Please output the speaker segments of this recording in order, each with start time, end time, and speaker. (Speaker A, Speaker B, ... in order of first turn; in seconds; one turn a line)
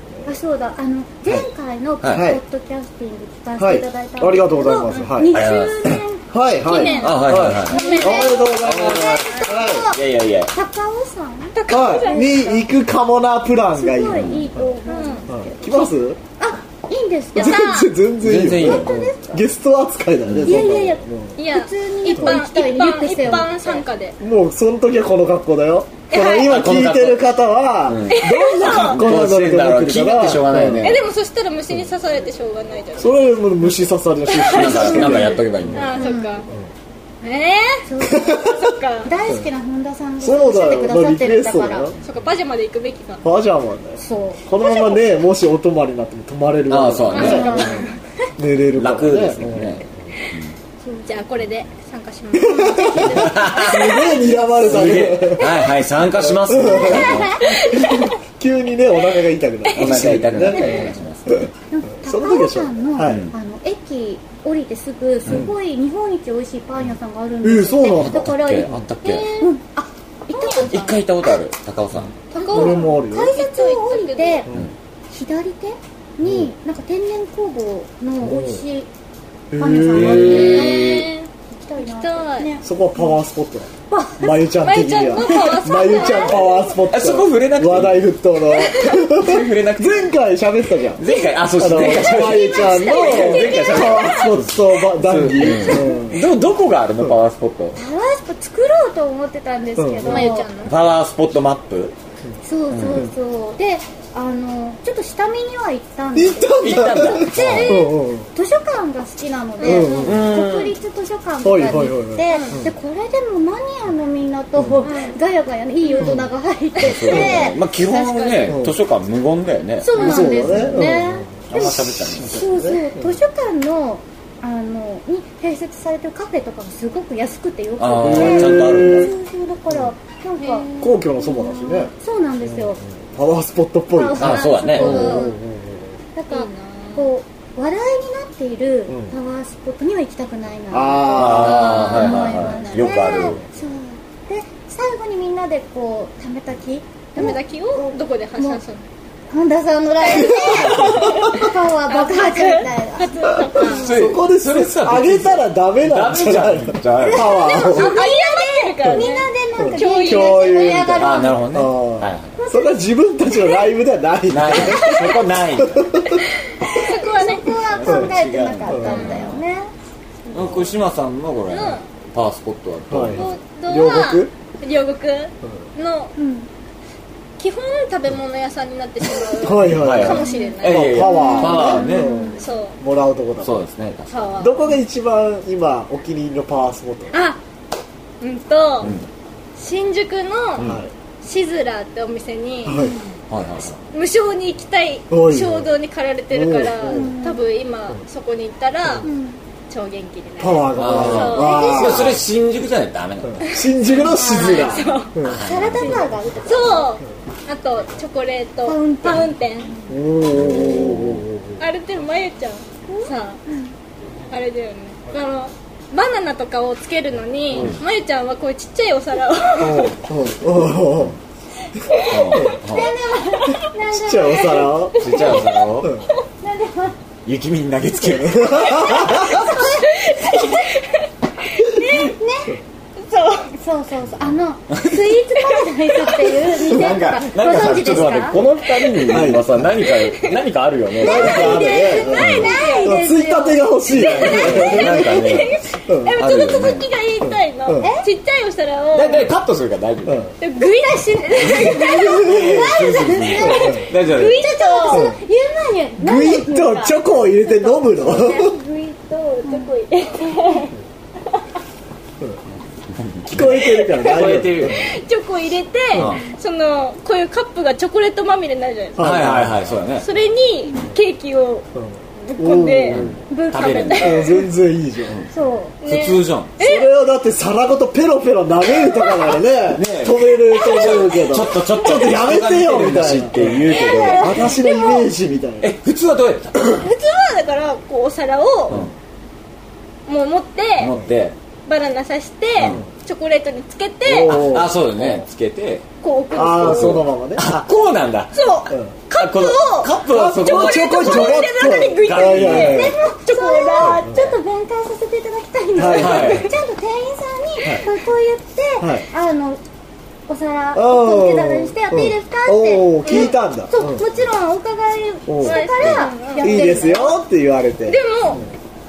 Speaker A: 0.2-7.1
Speaker B: 2.0-2.3
Speaker C: 2.1-2.4
Speaker C: 3.6-5.5
Speaker B: 5.3-6.0
Speaker C: 6.2-9.9
Speaker D: 6.6-8.5
Speaker B: 7.0-10.5
Speaker A: 7.7-12.5
Speaker D: 11.5-12.7
Speaker C: 11.7-14.5
Speaker A: 13.8-17.8
Speaker B: 14.1-14.5
Speaker D: 14.9-15.2
Speaker C: 15.3-16.2
Speaker C: 17.3-21.3
Speaker D: 17.3-17.9
Speaker B: 18.2-18.9
Speaker A: 18.6-19.4
Speaker B: 20.3-20.7
Speaker A: 20.4-23.8
Speaker D: 21.4-24.1
Speaker C: 24.2-30.9
Speaker D: 26.1-26.5
Speaker B: 26.3-27.3
Speaker B: 27.9-31.0
Speaker D: 28.1-29.1
Speaker D: 30.8-33.4
Speaker C: 33.0-35.9
Speaker D: 34.3-36.5
Speaker B: 34.5-36.0
Speaker A: 34.8-36.4
Speaker D: 37.2-39.1
Speaker A: 37.9-41.9
Speaker C: 38.1-38.6
Speaker C: 40.2-42.0
Speaker D: 42.0-43.3
Speaker C: 43.2-47.8
Speaker A: 44.0-44.4
Speaker D: 44.6-45.0
Speaker B: 46.7-47.7
Speaker D: 47.1-48.0
Speaker A: 47.1-47.9
Speaker C: 48.4-49.8
Speaker B: 48.8-50.5
Speaker A: 50.8-51.1
Speaker D: 51.0-54.0
Speaker C: 52.3-55.6
Speaker A: 52.7-53.1
Speaker B: 53.0-57.6
Speaker C: 56.2-61.5
Speaker A: 56.9-57.2
Speaker D: 57.4-58.1
Speaker D: 59.7-60.0
Speaker B: 59.7-61.5
Speaker A: 60.5-61.0
Speaker D: 60.6-60.8
Speaker A: 61.7-68.8
Speaker C: 62.0-63.3
Speaker B: 63.0-63.3
Speaker C: 65.3-65.5
Speaker C: 67.4-68.8
Speaker B: 67.9-69.3
Speaker D: 69.0-69.5
Speaker A: 69.4-70.9
Speaker D: 70.3-71.0
Speaker B: 70.7-72.1
Speaker D: 72.3-74.5
Speaker A: 72.3-74.5
Speaker C: 72.5-73.4
Speaker C: 74.5-74.7
Speaker A: 75.1-78.9
Speaker C: 76.2-76.5
Speaker C: 78.2-78.6
Speaker C: 79.5-80.7
Speaker A: 79.6-83.1
Speaker B: 79.9-81.1
Speaker D: 80.0-82.5
Speaker C: 82.6-91.0
Speaker A: 83.9-84.5
Speaker D: 84.6-86.8
Speaker B: 86.9-88.1
Speaker D: 88.5-88.9
Speaker B: 88.8-90.1
Speaker B: 90.9-97.8
Speaker C: 91.5-96.2
Speaker A: 91.7-94.1
Speaker A: 95.6-95.9
Speaker A: 97.7-100.5
Speaker C: 99.8-100.3
Speaker D: 100.0-100.7
Speaker B: 100.6-101.9
Speaker A: 102.4-117.6
Speaker B: 102.7-103.0
Speaker C: 106.1-108.3
Speaker B: 106.6-107.8
Speaker D: 107.3-107.9
Speaker D: 109.6-110.1
Speaker C: 109.6-110.3
Speaker B: 110.0-110.8
Speaker C: 111.4-112.7
Speaker D: 112.3-112.7
Speaker C: 114.6-114.8
Speaker D: 114.8-115.1
Speaker D: 115.8-116.2
Speaker C: 116.0-116.2
Speaker D: 116.8-118.6
Speaker B: 116.8-120.8
Speaker C: 118.5-118.8
Speaker A: 119.8-132.8
Speaker D: 119.9-120.4
Speaker C: 119.9-123.0
Speaker B: 121.5-122.4
Speaker B: 127.8-129.1
Speaker C: 128.0-129.1
Speaker D: 130.4-130.9
Speaker C: 130.8-131.9
Speaker C: 132.4-135.9
Speaker A: 133.9-135.4
Speaker B: 134.2-135.2
Speaker D: 134.7-135.3
Speaker A: 136.2-148.6
Speaker D: 136.3-137.1
Speaker C: 138.9-139.1
Speaker C: 140.7-142.3
Speaker B: 141.1-143.4
Speaker D: 141.6-143.3
Speaker C: 143.1-143.4
Speaker D: 147.2-148.8
Speaker A: 149.3-153.8
Speaker D: 150.1-153.9
Speaker C: 150.2-151.1
Speaker B: 153.6-157.7
Speaker C: 153.6-157.9
Speaker A: 157.2-161.4
Speaker D: 157.5-161.3
Speaker C: 159.6-166.2
Speaker B: 160.9-162.3
Speaker A: 162.3-162.9
Speaker B: 164.3-166.1
Speaker D: 166.6-167.5
Speaker A: 166.6-169.7
Speaker B: 167.6-169.4
Speaker C: 168.7-169.0
Speaker D: 168.8-169.3
Speaker B: 170.3-173.3
Speaker D: 171.5-171.8
Speaker C: 172.9-174.3
Speaker D: 173.1-176.1
Speaker A: 176.2-176.5
Speaker D: 177.4-181.8
Speaker C: 179.3-183.6
Speaker B: 179.7-182.1
Speaker A: 180.1-182.4
Speaker D: 182.4-182.8
Speaker B: 183.4-184.1
Speaker D: 184.1-184.6
Speaker C: 184.4-187.1
Speaker D: 187.1-187.4
Speaker D: 188.2-188.9
Speaker D: 189.6-192.9
Speaker C: 190.6-190.9
Speaker C: 192.6-193.0
Speaker A: 192.7-193.1
Speaker B: 193.3-193.8
Speaker D: 193.9-199.1
Speaker C: 195.1-195.7
Speaker C: 196.3-197.1
Speaker A: 196.9-197.4
Speaker A: 199.0-199.4
Speaker D: 199.7-202.1
Speaker C: 200.4-202.2
Speaker B: 200.7-203.5
Speaker A: 201.6-202.1
Speaker C: 203.3-205.4
Speaker D: 204.0-205.1
Speaker A: 204.0-206.9
Speaker B: 205.2-206.1
Speaker D: 206.4-209.7
Speaker A: 208.6-209.7
Speaker C: 209.9-211.6
Speaker B: 210.3-211.2
Speaker D: 211.6-213.4
Speaker A: 212.9-213.7
Speaker D: 214.3-219.9
Speaker B: 217.5-217.8
Speaker C: 219.6-221.2
Speaker D: 221.8-222.5
Speaker B: 222.0-222.9
Speaker A: 222.5-224.7
Speaker D: 223.3-223.6
Speaker C: 223.9-225.0
Speaker D: 224.9-226.2
Speaker B: 225.0-225.9
Speaker A: 226.4-227.0
Speaker B: 227.2-229.4
Speaker C: 228.3-229.4
Speaker A: 229.1-230.5
Speaker D: 229.4-232.1
Speaker A: 231.8-232.5
Speaker D: 233.0-233.5
Speaker A: 233.5-238.4
Speaker D: 235.8-236.3
Speaker B: 236.6-242.5
Speaker D: 238.7-239.1
Speaker C: 239.1-239.7
Speaker D: 239.8-240.4
Speaker D: 241.0-243.0
Speaker C: 241.0-245.2
Speaker A: 242.1-244.2
Speaker D: 243.9-249.3
Speaker B: 244.0-245.6
Speaker C: 245.9-246.2
Speaker B: 246.2-246.8
Speaker C: 247.7-247.9
Speaker A: 247.8-248.1
Speaker B: 248.9-250.3
Speaker C: 250.1-250.3
Speaker D: 250.4-255.1
Speaker B: 251.5-254.5
Speaker A: 251.5-260.7
Speaker C: 253.4-253.8
Speaker C: 254.9-255.2
Speaker C: 256.0-258.5
Speaker D: 258.1-260.7
Speaker B: 262.9-264.8
Speaker C: 263.3-264.9
Speaker D: 263.5-269.3
Speaker B: 265.9-266.2
Speaker C: 268.9-269.7
Speaker B: 269.0-270.1
Speaker D: 270.0-271.7
Speaker C: 271.8-273.2
Speaker D: 272.2-274.4
Speaker B: 272.9-274.2
Speaker A: 273.3-274.0
Speaker C: 273.9-275.3
Speaker A: 275.3-275.8
Speaker D: 275.8-276.9
Speaker B: 275.8-276.5
Speaker C: 276.6-285.7
Speaker D: 278.8-279.3
Speaker B: 279.7-284.5
Speaker D: 280.6-281.1
Speaker D: 283.6-285.1
Speaker B: 285.6-286.8
Speaker D: 286.6-288.8
Speaker D: 290.1-290.9
Speaker B: 290.8-291.3
Speaker D: 291.7-294.6
Speaker B: 292.6-292.8
Speaker C: 294.0-295.1
Speaker B: 294.2-295.8
Speaker D: 296.0-297.1
Speaker C: 296.3-297.6
Speaker B: 296.5-298.6
Speaker D: 298.3-304.1
Speaker B: 299.1-302.9
Speaker C: 300.1-303.0
Speaker A: 302.6-309.6
Speaker C: 303.8-304.3
Speaker C: 305.7-306.5
Speaker B: 305.9-306.6
Speaker D: 306.0-306.3
Speaker C: 307.6-307.9
Speaker C: 308.8-309.1
Speaker A: 310.3-317.2
Speaker C: 310.7-314.1
Speaker D: 313.1-313.3
Speaker C: 315.3-318.5
Speaker D: 315.4-316.7
Speaker D: 317.9-318.4